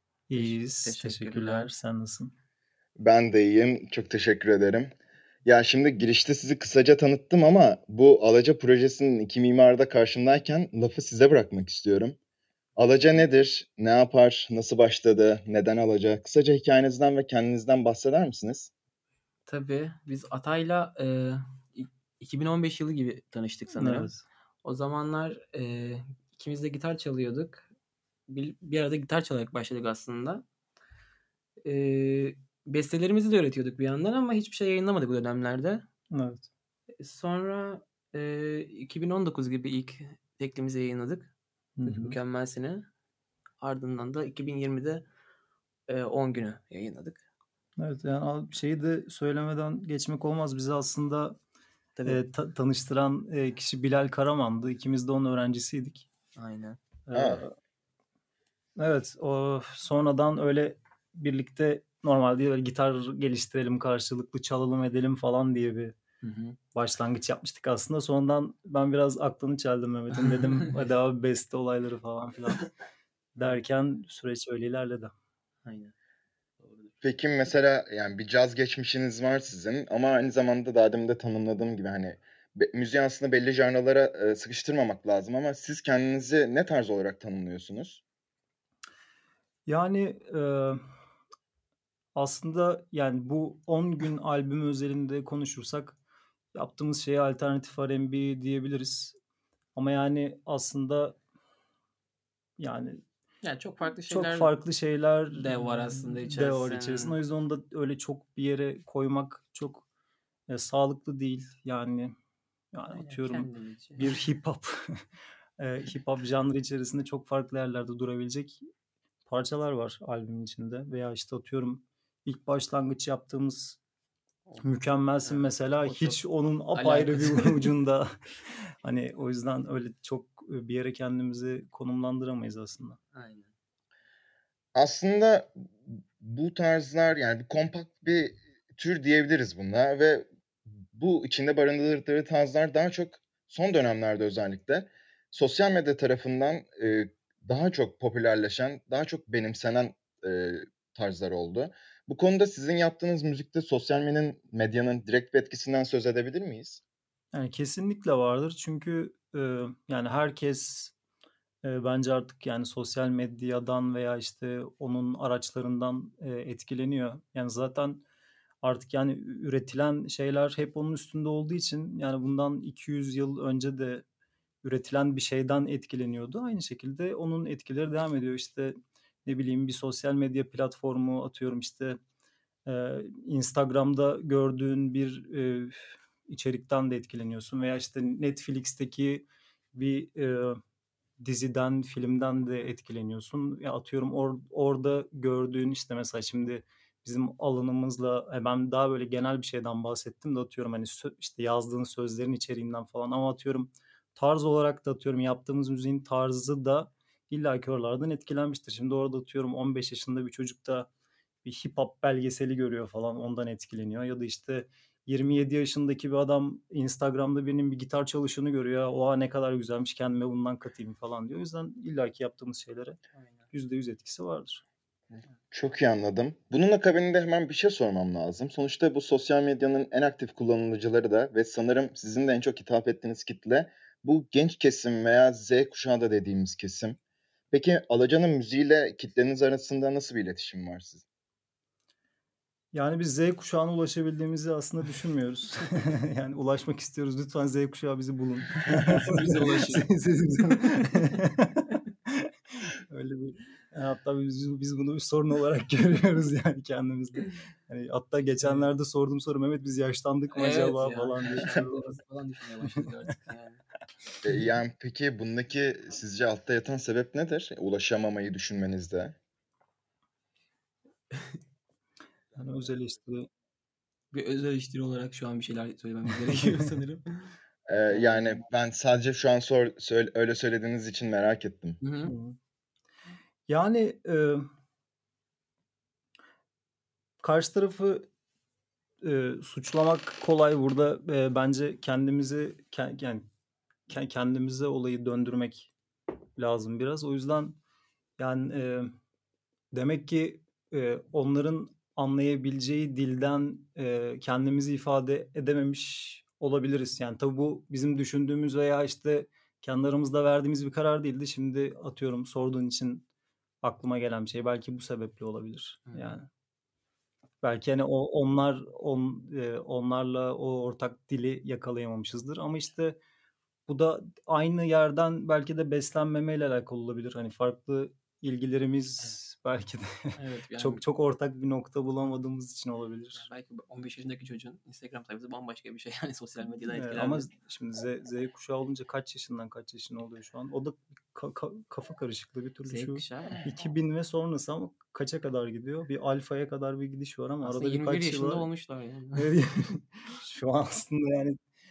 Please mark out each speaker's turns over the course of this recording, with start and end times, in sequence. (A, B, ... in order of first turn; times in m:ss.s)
0:00.3-0:02.3 A
0:00.3-0:01.7 B
0:03.0-0:04.9 C
0:05.4-0:12.2 C
0:12.8-0:18.7 C
0:19.5-0:27.7 B
0:23.7-0:24.2 A
0:28.3-0:30.4 B
0:31.6-0:35.8 B
0:36.1-0:36.5 A
0:37.0-0:41.3 B
0:41.8-0:42.2 A
0:41.8-0:42.9 B
0:43.6-0:45.0 B
0:45.9-0:47.2 B
0:47.8-0:51.4 A
0:52.0-0:56.1 A
0:56.4-0:56.8 B
0:57.1-0:57.5 A
0:57.1-0:57.4 C
0:58.8-1:06.0 A
1:06.2-1:06.6 B
1:06.8-1:12.7 A
1:10.1-1:10.8 B
1:13.4-1:15.1 A
1:15.6-1:15.9 B
1:16.6-1:16.9 B
1:17.0-1:28.0 C
1:29.7-1:30.8 A
1:32.2-1:36.0 A
1:36.5-1:39.2 A
1:39.8-1:41.2 A
1:42.6-1:43.0 A
1:43.4-1:44.5 B
1:44.1-1:49.8 A
1:45.4-1:47.2 B
1:50.5-1:52.1 A
1:52.7-1:55.0 A
1:52.9-1:54.1 B
1:55.6-1:58.6 A
1:59.3-2:03.8 A
2:04.5-2:06.2 B
2:04.6-2:13.0 A
2:06.8-2:07.7 B
2:13.1-2:13.5 B
2:14.8-2:20.3 C
2:20.9-2:36.8 C
2:37.3-2:40.9 A
2:41.6-2:48.0 A
2:48.6-2:54.0 A
2:54.6-3:02.0 A
3:02.7-3:10.6 A
3:11.2-3:30.9 A
3:31.4-3:43.0 A
3:43.5-3:44.6 A
3:45.5-3:57.0 C
3:57.5-4:01.0 C
4:02.7-4:21.7 A
4:08.7-4:11.1 B
4:18.4-4:18.7 B
4:20.3-4:23.6 B
4:24.2-4:29.2 C
4:32.4-4:33.3 A
4:34.1-4:37.3 B
4:37.7-4:41.8 C
4:37.9-4:38.4 B
4:41.8-4:42.1 B
4:42.0-4:42.4 A
4:43.5-4:44.5 A
4:47.2-4:48.1 A
4:49.0-4:53.3 A
4:53.9-4:55.7 A
4:56.4-4:57.6 A
4:58.2-4:58.9 A
4:59.7-5:13.1 A
5:13.6-5:16.3 A
5:15.9-5:16.1 B
5:17.4-5:23.0 A
5:23.7-5:33.3 A
5:30.2-5:30.8 B
5:33.2-5:37.3 B
5:36.7-5:48.5 A
5:42.7-5:43.5 B
5:47.4-5:49.3 B
5:49.2-5:51.4 A